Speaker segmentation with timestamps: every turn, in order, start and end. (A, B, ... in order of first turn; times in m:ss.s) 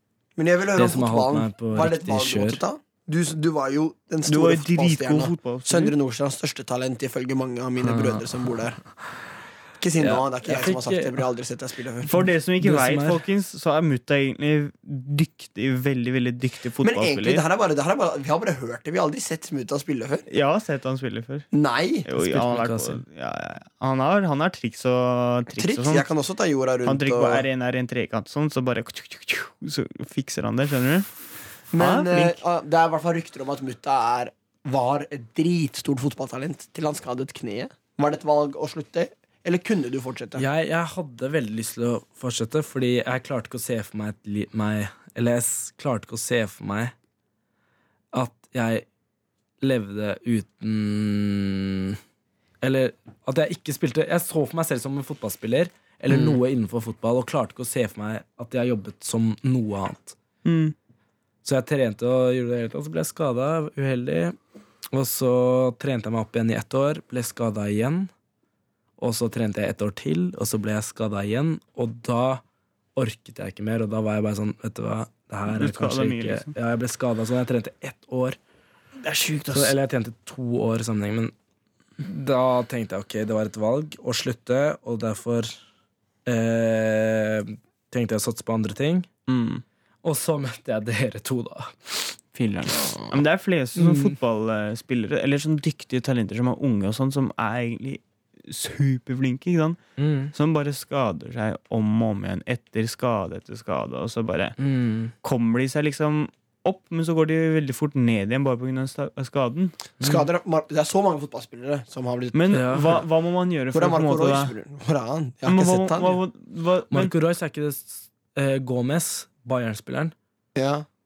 0:00.4-0:08.8 A
0:00.8-0:02.6 B
0:04.3-0:05.9 C
0:07.8-0:08.2 B
0:09.8-0:12.1 A
0:10.0-0:11.2 B
0:12.1-0:17.4 C
0:12.6-0:13.2 B
0:16.8-0:20.2 A
0:20.3-0:21.5 C
0:21.5-0:22.1 A
0:22.1-0:26.1 C
0:22.2-0:23.0 B
0:25.6-0:27.4 A
0:26.8-0:31.1 C
0:31.7-0:40.4 A
0:31.7-0:32.4 C
0:40.4-0:46.9 B
0:48.1-0:48.8 B
0:49.6-0:52.0 B
0:52.6-1:00.2 B
1:00.4-1:00.8 C
1:01.4-1:04.4 B
1:04.9-1:08.1 B
1:09.0-1:12.4 B
1:13.0-1:18.4 B
1:15.5-1:16.5 C
1:19.0-1:19.7 C
1:19.5-1:21.3 B
1:22.0-1:25.6 B
1:26.3-1:29.1 B
1:29.3-1:29.6 C
1:30.0-1:32.1 B
1:32.4-1:39.8 C
1:32.8-1:33.2 A
1:33.8-1:34.2 B
1:40.0-1:40.3 B
1:40.3-1:44.6 C
1:44.6-1:45.1 B
1:45.2-1:49.8 C
1:50.0-1:52.4 A
1:52.3-1:54.5 C
1:52.5-1:53.0 B
1:53.7-1:56.2 A
1:55.5-1:57.1 C
1:56.9-2:00.1 B
2:00.6-2:00.9 A